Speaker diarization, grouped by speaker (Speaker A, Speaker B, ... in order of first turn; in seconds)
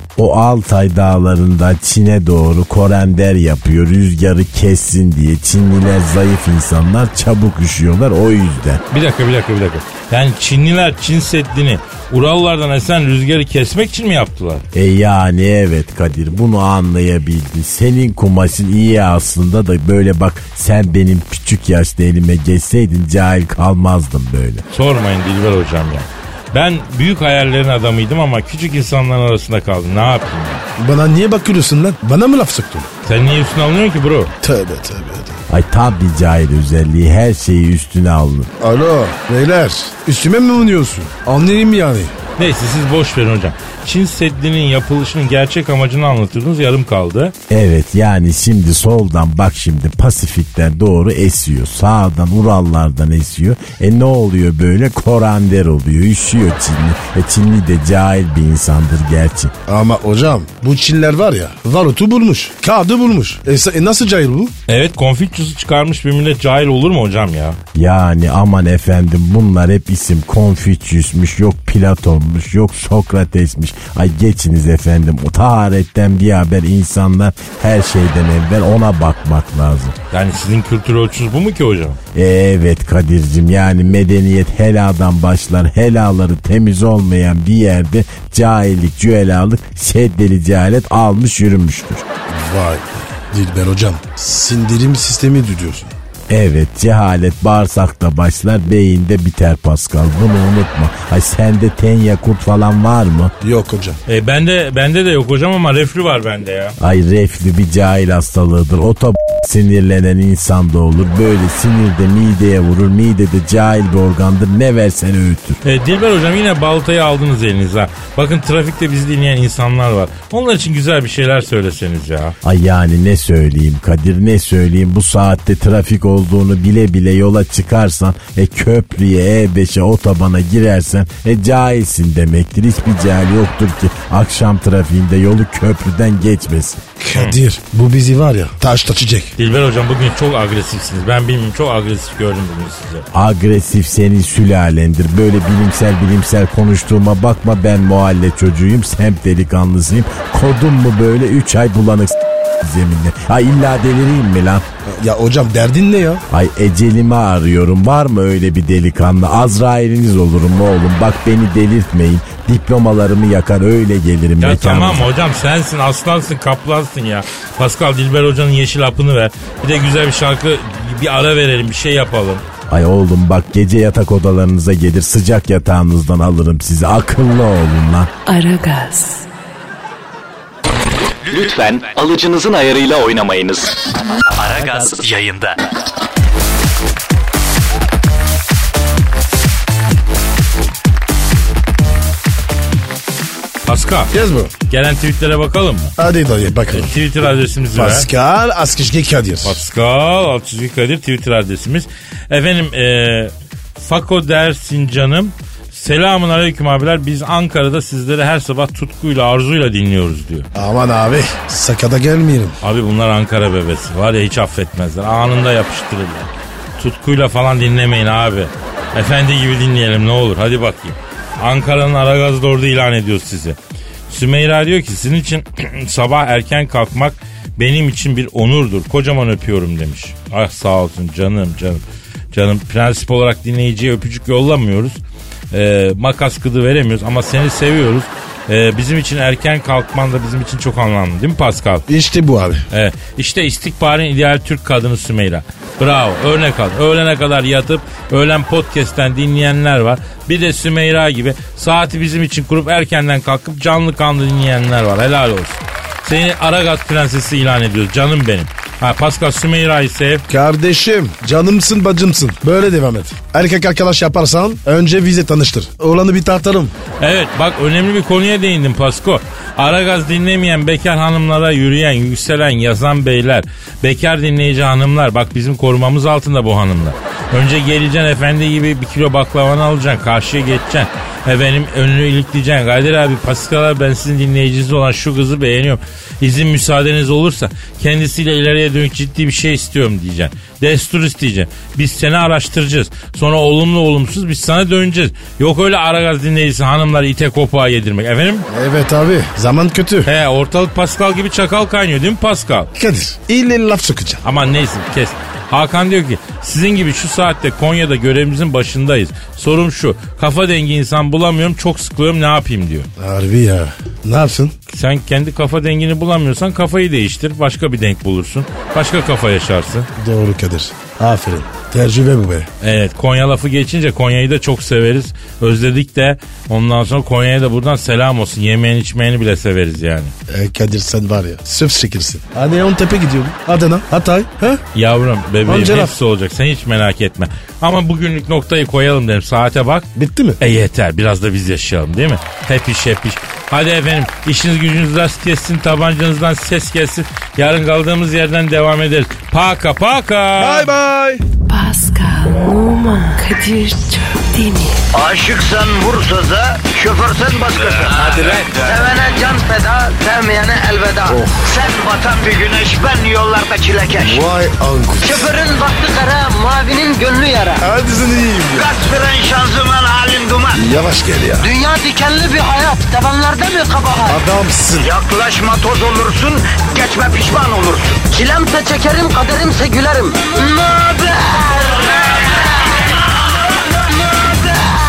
Speaker A: 0.2-8.8, 14.7-24.6, 35.5-38.5, 47.5-59.5, 67.8-80.0, 82.2-92.0, 96.3-103.3, 106.8-115.6, 122.4-136.8, 143.1-154.7, 156.3-165.1, 172.7-178.1
Speaker B: 8.9-14.7, 24.7-30.6, 33.0-34.3, 42.4-47.3, 64.7-67.6, 80.1-82.0, 104.1-106.8, 115.6-122.4, 139.4-143.1, 164.4-172.4, 193.7-194.1, 194.7-195.9, 196.7-198.1, 199.4-210.5, 212.6-223.6, 224.1-235.0, 235.5-241.8, 242.7-260.2, 267.0-298.5, 300.1-302.7, 304.2-312.9, 314.7-319.9, 322.6-330.1, 334.8-350.7
Speaker C: 30.8-32.9, 34.4-35.4, 38.6-42.2, 59.7-64.5, 92.3-96.0, 103.4-104.0, 137.0-139.3, 154.8-156.2, 194.1-194.5, 196.0-196.9, 197.8-199.6, 210.6-212.6, 241.9-242.7, 260.3-266.7, 298.5-300.1, 302.8-304.2, 313.0-314.6, 320.0-322.5, 330.3-334.6, 335.5-335.9, 340.0-340.4, 350.4-351.2, 357.9-358.7, 361.1-361.5, 364.0-365.2, 367.6-368.7, 370.5-371.5, 374.1-374.9
Speaker D: 178.3-179.3, 351.5-354.8
Speaker E: 181.2-183.8, 184.3-185.6
Speaker F: 354.9-364.3, 365.0-367.6, 368.5-370.6, 371.4-374.2, 374.8-382.7, 384.1-384.8